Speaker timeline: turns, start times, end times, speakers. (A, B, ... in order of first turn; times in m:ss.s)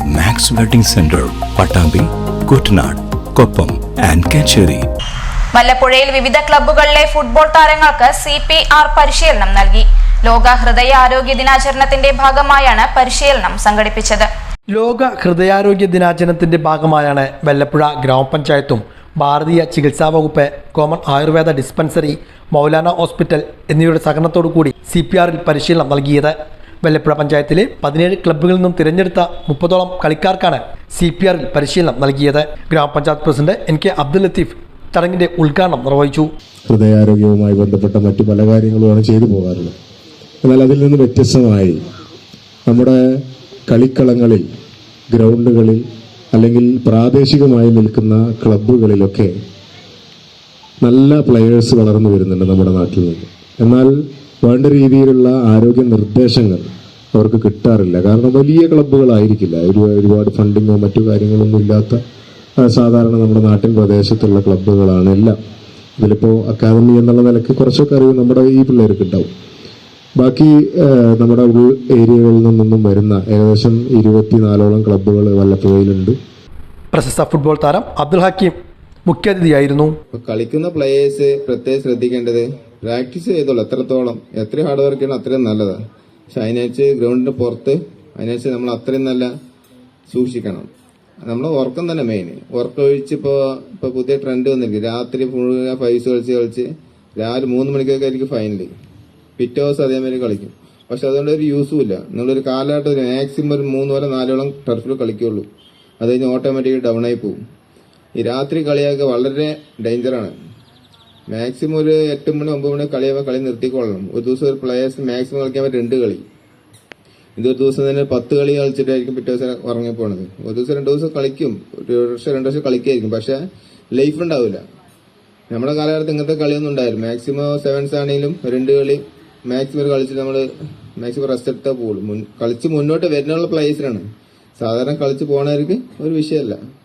0:00.1-0:04.8 A
0:05.6-0:14.3 B
0:14.7-0:36.3 C
0:36.7-0:39.7 D
0:40.4-0:41.8 D
0:42.7-0:44.5 D
0:45.1-0:49.4 D
0:50.8-1:02.0 D
1:02.6-1:05.4 D
1:06.0-1:09.3 D
1:10.2-1:16.2 D
1:16.9-1:18.6 C
1:19.1-1:20.0 C
1:20.1-1:25.8 E
1:26.3-1:29.3 E
1:30.1-1:30.7 E
1:31.2-1:38.7 E
1:39.4-1:45.5 E
1:46.0-1:47.4 E
1:48.2-1:50.3 E
1:51.3-1:56.2 E
1:57.4-2:03.4 E
2:03.9-2:04.6 E
2:05.5-2:10.5 E
2:11.0-2:14.0 E
2:14.6-2:16.6 E